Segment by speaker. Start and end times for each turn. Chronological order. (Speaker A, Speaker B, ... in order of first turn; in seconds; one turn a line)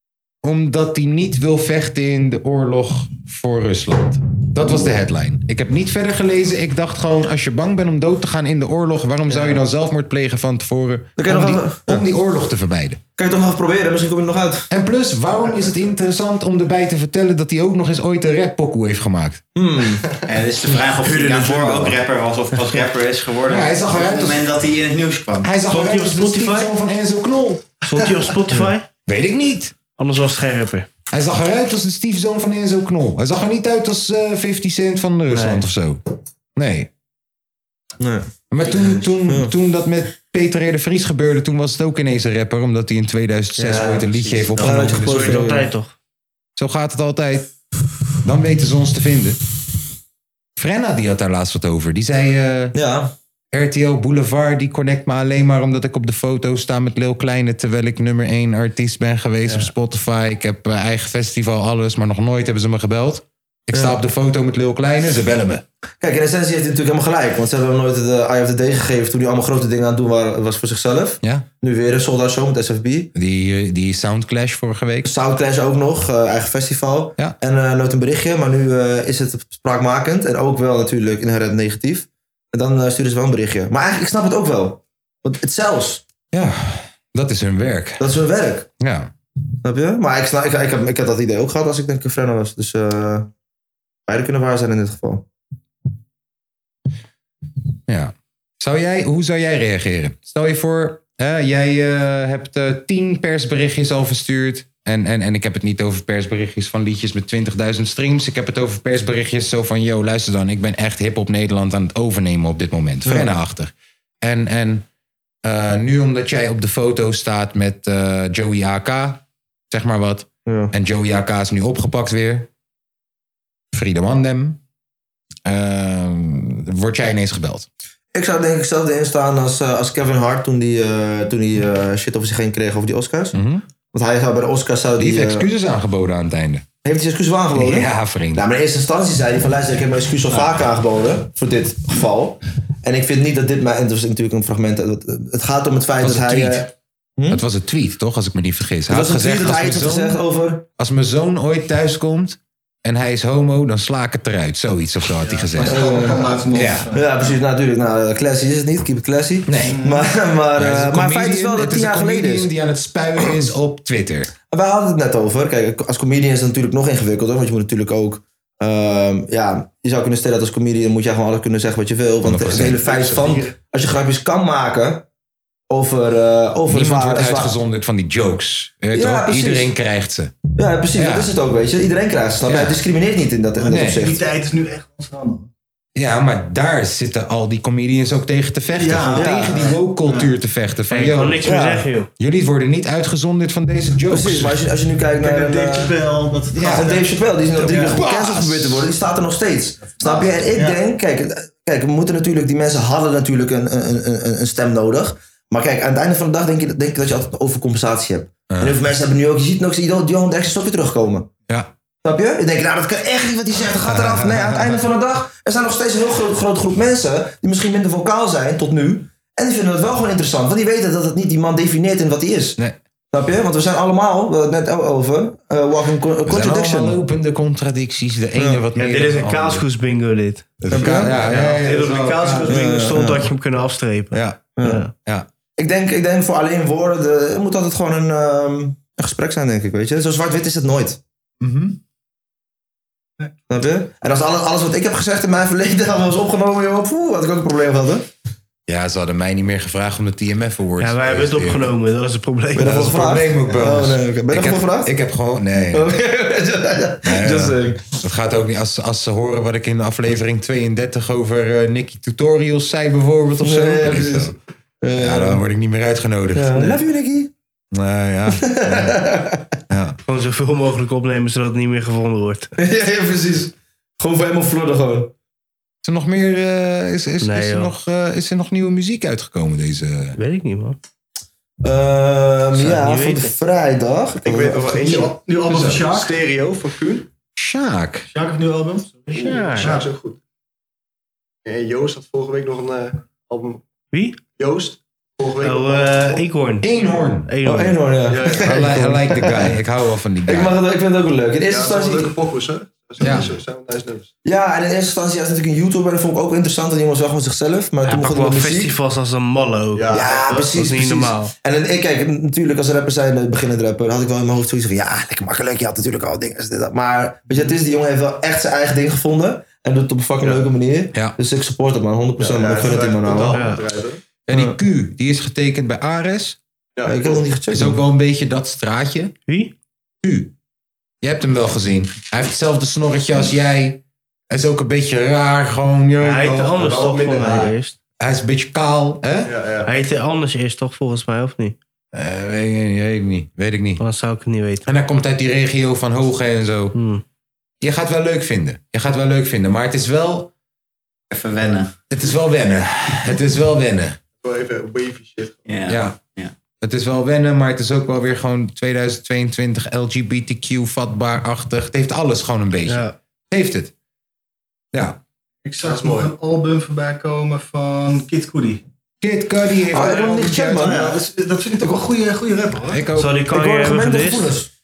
Speaker A: 0.4-13.0
Speaker B: 9.3-9.6
Speaker B: 11.2-12.0
Speaker B: 13.2-14.7
Speaker A: 14.7-19.4
Speaker B: 19.5-20.0
Speaker C: 20.2-25.5
Speaker A: 23.5-24.4
Speaker A: 25.4-27.6
Speaker D: 25.7-26.7
Speaker D: 27.9-28.9
Speaker A: 29.1-29.7
Speaker D: 30.0-30.9
Speaker A: 31.1-36.0
Speaker D: 35.3-35.6
Speaker A: 36.5-36.9
Speaker B: 38.0-38.2
Speaker A: 38.5-45.5
Speaker B: 39.3-39.5
Speaker D: 43.6-45.9
Speaker B: 44.6-45.7
Speaker A: 46.6-47.5
Speaker A: 48.2-49.4
Speaker A: 50.5-52.7
Speaker B: 52.7-53.1
Speaker A: 53.5-65.6
Speaker B: 66.0-73.1
Speaker A: 73.1-75.1
Speaker B: 75.0-86.0
Speaker A: 86.3-88.1
Speaker B: 88.0-88.7
Speaker A: 88.8-89.1
Speaker B: 89.6-93.3
Speaker B: 94.1-95.2
Speaker A: 97.9-114.8
Speaker A: 115.4-122.5
Speaker B: 120.5-120.7
Speaker A: 123.7-124.6
Speaker A: 125.5-127.7
Speaker B: 128.1-133.3
Speaker A: 133.3-133.6
Speaker B: 133.9-135.4
Speaker A: 135.0-136.6
Speaker B: 136.8-147.4
Speaker A: 137.5-138.4
Speaker A: 146.0-146.7
Speaker A: 147.3-150.2
Speaker B: 148.9-150.6
Speaker A: 150.8-156.9
Speaker E: 155.2-157.3
Speaker B: 155.6-156.3
Speaker B: 156.9-162.5
Speaker A: 159.4-159.8
Speaker E: 159.6-160.1
Speaker A: 160.6-164.3
Speaker B: 164.5-175.0
Speaker A: 172.2-173.2
Speaker B: 175.7-177.5
Speaker A: 176.7-180.3
Speaker B: 178.9-179.7
Speaker B: 180.6-184.2
Speaker A: 180.9-181.3
Speaker A: 182.4-182.8
Speaker E: 183.6-185.5
Speaker A: 183.7-184.2
Speaker A: 185.9-191.5
Speaker E: 188.7-190.3
Speaker B: 189.1-189.8
Speaker D: 190.9-192.1
Speaker B: 191.4-191.9
Speaker A: 192.2-194.6
Speaker B: 194.1-196.0
Speaker E: 195.1-198.0
Speaker A: 196.5-196.9
Speaker B: 196.7-211.3
Speaker A: 197.6-198.9
Speaker E: 200.0-200.8
Speaker A: 208.5-208.8
Speaker B: 212.0-222.6
Speaker A: 213.8-214.9
Speaker B: 223.1-227.0
Speaker A: 226.2-229.6
Speaker D: 228.7-234.9
Speaker A: 230.6-232.6
Speaker B: 230.7-231.2
Speaker E: 231.6-232.4
Speaker B: 232.4-233.3
Speaker A: 234.1-234.4
Speaker B: 234.6-234.8
Speaker B: 235.6-241.0
Speaker A: 241.4-241.8
Speaker B: 243.5-248.1
Speaker A: 248.7-251.7
Speaker D: 250.8-253.0
Speaker B: 252.6-254.9
Speaker A: 252.7-256.0
Speaker B: 255.7-257.9
Speaker A: 257.0-264.3
Speaker B: 263.4-265.4
Speaker A: 264.9-266.8
Speaker B: 266.3-267.3
Speaker A: 267.7-269.0
Speaker B: 268.3-269.5
Speaker A: 269.7-270.0
Speaker D: 270.1-272.5
Speaker B: 272.6-275.1
Speaker A: 275.8-280.2
Speaker D: 277.2-277.7
Speaker D: 280.1-280.8
Speaker B: 281.6-285.0
Speaker D: 282.5-283.3
Speaker F: 284.2-287.0
Speaker E: 284.7-286.2
Speaker A: 285.5-285.9
Speaker A: 287.4-288.1
Speaker E: 288.1-289.9
Speaker D: 289.1-289.8
Speaker F: 289.1-290.2
Speaker F: 291.4-293.6
Speaker D: 293.9-294.2
Speaker F: 294.4-296.2
Speaker D: 295.4-296.7
Speaker A: 296.6-297.3
Speaker D: 297.3-297.9
Speaker B: 297.4-299.5
Speaker F: 298.1-298.6
Speaker A: 298.4-300.6
Speaker B: 300.3-302.2
Speaker F: 301.5-304.1
Speaker A: 303.0-303.3
Speaker B: 304.2-308.7
Speaker D: 307.8-311.3
Speaker F: 309.7-310.4
Speaker B: 309.9-323.4
Speaker F: 322.2-324.0
Speaker D: 323.3-323.6
Speaker A: 324.3-326.4
Speaker B: 324.3-324.6
Speaker F: 326.8-327.2
Speaker B: 326.9-327.8
Speaker A: 327.5-329.1
Speaker D: 329.3-329.5
Speaker A: 330.0-330.3
Speaker A: 331.0-336.8
Speaker D: 336.0-337.7
Speaker F: 336.6-337.5
Speaker A: 338.0-339.3
Speaker F: 339.2-339.7
Speaker D: 339.6-341.6
Speaker A: 341.9-343.8
Speaker D: 343.8-344.6
Speaker A: 344.6-346.7
Speaker D: 346.7-347.0
Speaker A: 347.6-350.3
Speaker C: 351.1-351.7
Speaker A: 351.9-354.0
Speaker F: 354.2-355.4
Speaker C: 355.4-356.3
Speaker A: 355.7-355.9
Speaker A: 356.6-363.7
Speaker D: 362.7-362.9
Speaker A: 364.7-365.0
Speaker E: 365.4-368.6
Speaker F: 365.6-366.1
Speaker A: 369.0-370.9
Speaker B: 369.7-370.9
Speaker E: 370.5-372.8
Speaker A: 372.7-373.2
Speaker D: 372.9-374.3
Speaker B: 373.3-374.5